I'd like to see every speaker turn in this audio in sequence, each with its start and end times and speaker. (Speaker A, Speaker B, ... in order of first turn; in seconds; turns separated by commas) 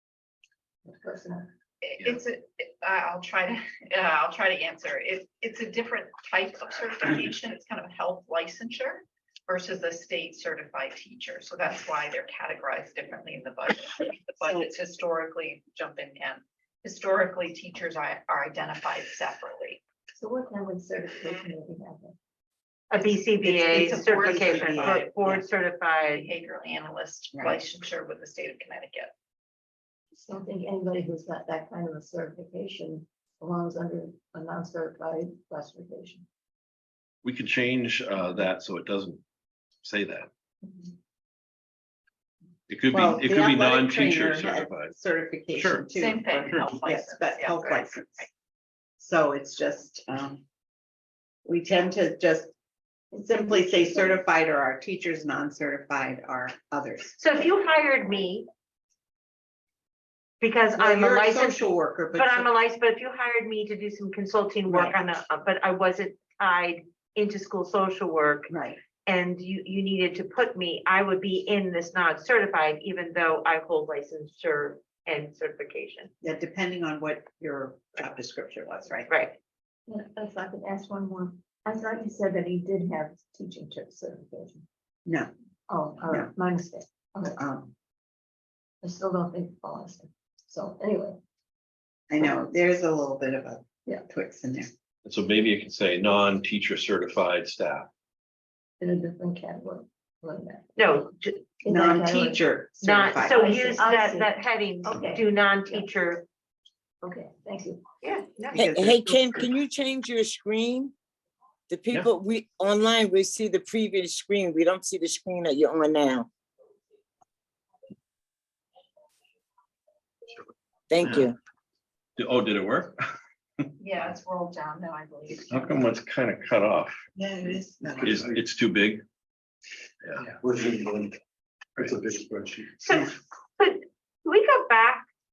Speaker A: 0.8-1.5, Speaker B: 1.8-19.8, Speaker A: 20.2-22.1, Speaker C: 22.9-26.3, Speaker B: 23.4-25.1, Speaker D: 23.5-25.4, Speaker B: 26.1-29.1, Speaker A: 30.2-36.2, Speaker E: 37.2-39.2, Speaker E: 39.8-40.3, Speaker E: 42.7-44.9, Speaker D: 42.9-48.3, Speaker E: 45.5-45.9, Speaker B: 45.9-48.3, Speaker D: 49.0-50.4, Speaker D: 51.5-52.5, Speaker D: 53.1-57.2, Speaker A: 53.2-54.1, Speaker C: 57.2-58.5, Speaker C: 60.4-68.5, Speaker D: 60.7-62.5, Speaker D: 64.7-64.9, Speaker D: 68.5-68.8, Speaker C: 69.0-76.1, Speaker D: 76.2-79.1, Speaker C: 79.1-79.4, Speaker A: 79.9-84.6, Speaker D: 85.0-85.3, Speaker A: 85.7-87.4, Speaker D: 87.4-87.7, Speaker A: 88.8-91.2, Speaker D: 92.1-94.7, Speaker E: 95.0-97.9, Speaker A: 98.8-100.8, Speaker C: 100.8-101.4, Speaker A: 101.6-102.4, Speaker D: 101.7-103.9, Speaker C: 102.8-106.2, Speaker A: 103.4-104.3, Speaker A: 104.8-105.8, Speaker A: 107.0-107.8, Speaker C: 108.0-108.6, Speaker D: 108.5-109.6, Speaker F: 108.5-110.9, Speaker F: 111.7-116.3, Speaker F: 120.9-121.3, Speaker E: 121.0-121.3, Speaker E: 122.2-123.0, Speaker B: 123.8-125.7, Speaker E: 125.5-127.0, Speaker D: 127.2-128.2, Speaker E: 128.0-129.0, Speaker G: 128.0-128.3, Speaker G: 130.2-131.2, Speaker G: 131.8-132.7, Speaker C: 132.8-135.1